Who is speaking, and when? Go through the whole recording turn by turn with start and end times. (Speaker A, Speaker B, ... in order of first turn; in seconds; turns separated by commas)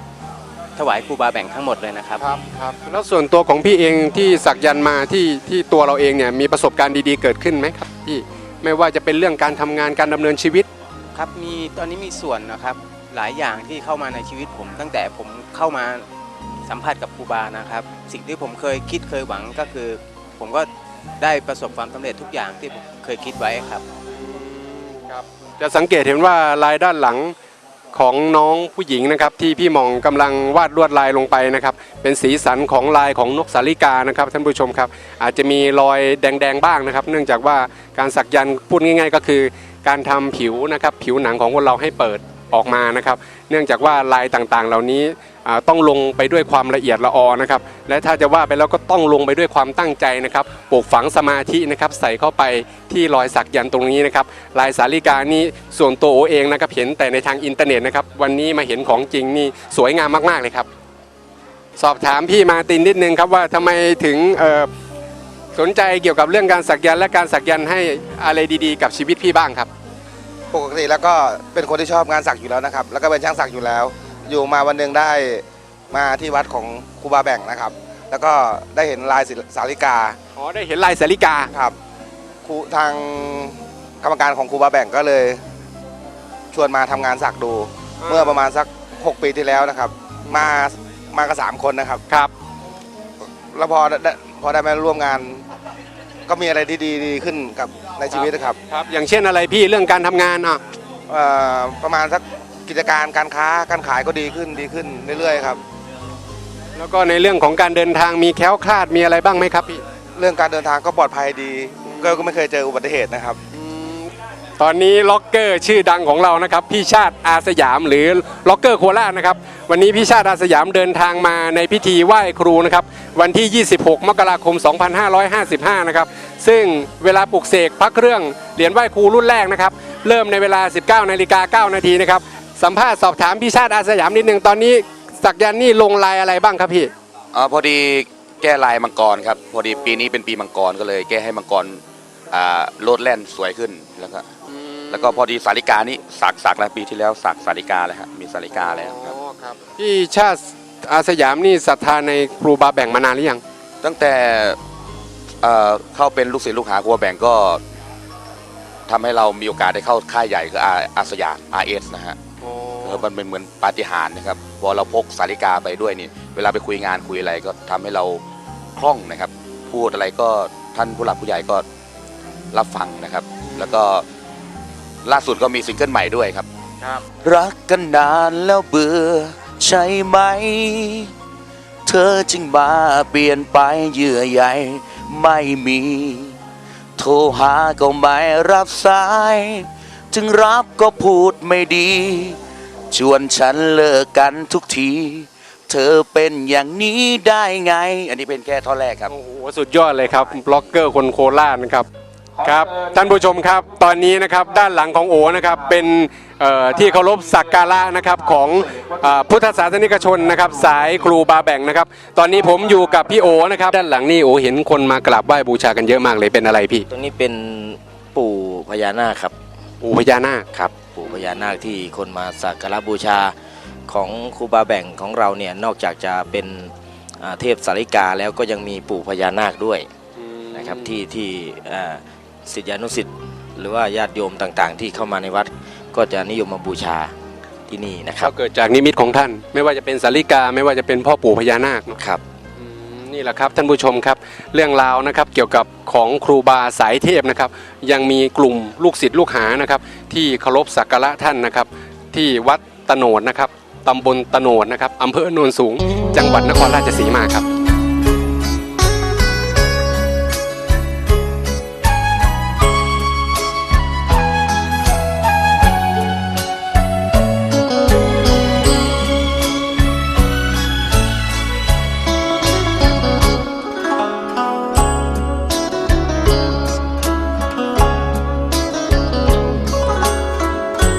Speaker A: 0.8-2.2, Speaker B: 2.2-10.7, Speaker A: 11.1-16.1, Speaker A: 16.7-20.7, Speaker A: 21.2-23.8, Speaker B: 24.2-27.3, Speaker B: 27.9-60.7, Speaker B: 61.8-64.7, Speaker B: 65.5-69.7, Speaker C: 70.5-80.2, Speaker B: 80.4-81.5, Speaker C: 82.5-85.4, Speaker C: 86.5-92.0, Speaker B: 88.0-88.5, Speaker C: 93.5-95.4, Speaker C: 96.3-98.6, Speaker B: 98.1-100.6, Speaker C: 101.1-105.6, Speaker B: 106.8-109.8, Speaker C: 110.2-113.4, Speaker B: 111.8-112.4, Speaker B: 113.5-136.9, Speaker D: 137.3-144.3, Speaker B: 144.5-145.2, Speaker D: 144.9-149.2, Speaker B: 148.5-153.4, Speaker D: 153.8-154.6, Speaker D: 155.4-157.6, Speaker D: 158.9-162.2, Speaker D: 162.8-168.2, Speaker D: 168.8-171.7, Speaker D: 172.5-174.1, Speaker D: 175.1-176.5, Speaker D: 177.1-181.1, Speaker D: 181.9-186.3, Speaker D: 187.0-192.4, Speaker D: 192.9-199.1, Speaker B: 199.1-201.9, Speaker B: 202.4-216.9, Speaker E: 216.9-219.4, Speaker B: 219.8-220.5, Speaker E: 220.5-223.4, Speaker E: 223.9-229.9, Speaker B: 230.2-230.9, Speaker E: 230.5-237.1, Speaker E: 237.7-238.3, Speaker B: 238.2-242.0, Speaker B: 242.6-257.5